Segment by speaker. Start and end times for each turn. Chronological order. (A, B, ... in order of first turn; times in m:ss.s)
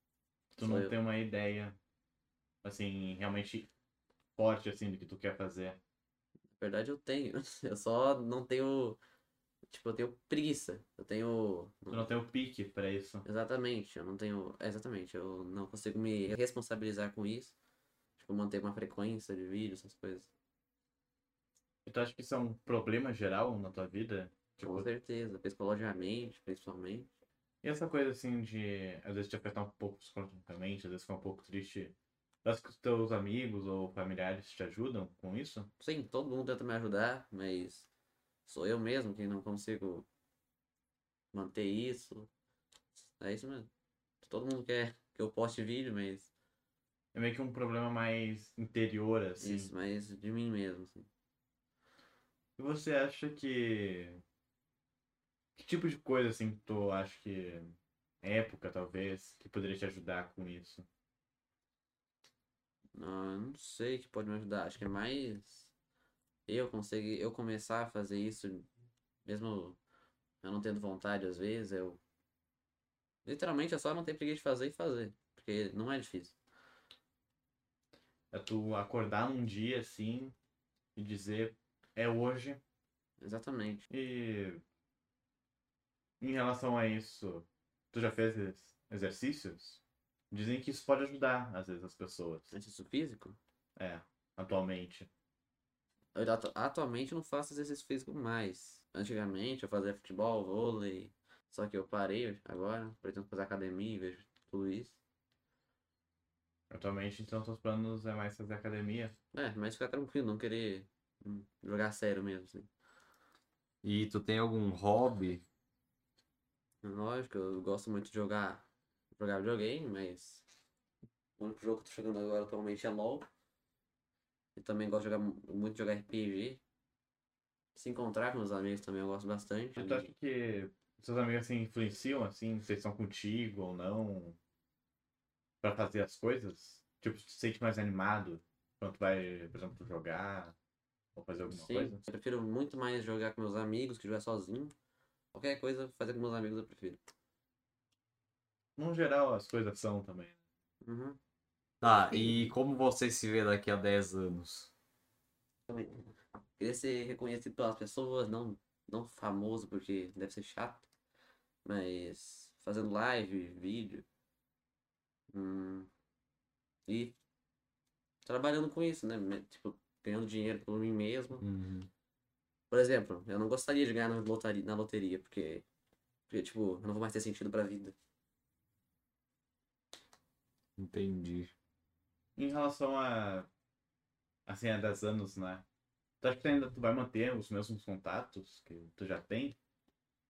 0:00.5-0:01.8 A
0:00.6-0:01.0 B
0:02.6-0:03.7 A
0:04.4-0:05.8 A
0:06.5-0:09.0 B
0:09.7-0:12.1 B
0:11.9-0:13.2 A
0:13.2-0:17.5 B
0:18.2-0:20.3 B
0:21.8-0:24.8 A
0:24.6-0:27.1 B
0:27.6-0:35.7 A
0:35.8-0:37.9 B
0:38.4-0:40.0 B
0:41.3-0:42.3 B
0:43.2-0:43.7 B
0:44.2-0:46.3 B
0:47.1-0:49.7 A
0:49.4-0:51.1 B
0:52.6-0:54.2 A
0:55.6-1:00.8 A
1:03.0-1:05.7 B
1:06.5-1:08.7 B
1:09.2-1:09.8 B
1:10.4-1:12.0 B
1:13.2-1:16.4 B
1:18.3-1:20.4 A
1:21.0-1:22.6 A
1:23.2-1:23.8 B
1:23.9-1:24.6 A
1:26.2-1:32.5 A
1:32.5-1:33.4 B
1:33.8-1:35.1 A
1:36.1-1:45.0 B
1:46.7-1:49.1 A
1:49.3-1:52.7 B
1:53.8-1:55.4 C
1:56.8-1:58.6 B
1:59.2-2:00.4 B
2:01.4-2:03.3 B
2:04.6-2:06.6 B
2:07.7-2:10.1 B
2:09.8-2:14.4 A
2:15.6-2:20.5 A
2:21.1-2:22.0 A
2:21.4-2:24.7 B
2:25.3-2:27.0 B
2:28.8-2:30.4 A
2:30.8-2:31.2 B
2:31.8-2:34.7 C
2:31.9-2:32.5 B
2:35.7-2:40.9 B
2:41.6-2:44.0 B
2:45.3-2:45.9 B
2:46.9-2:47.1 B
2:48.2-2:51.4 B
2:51.4-2:51.9 C
2:52.7-2:55.6 B
2:56.3-2:57.9 B
3:00.8-3:01.5 C
3:02.4-3:03.5 A
3:04.4-3:05.6 A
3:06.2-3:09.6 A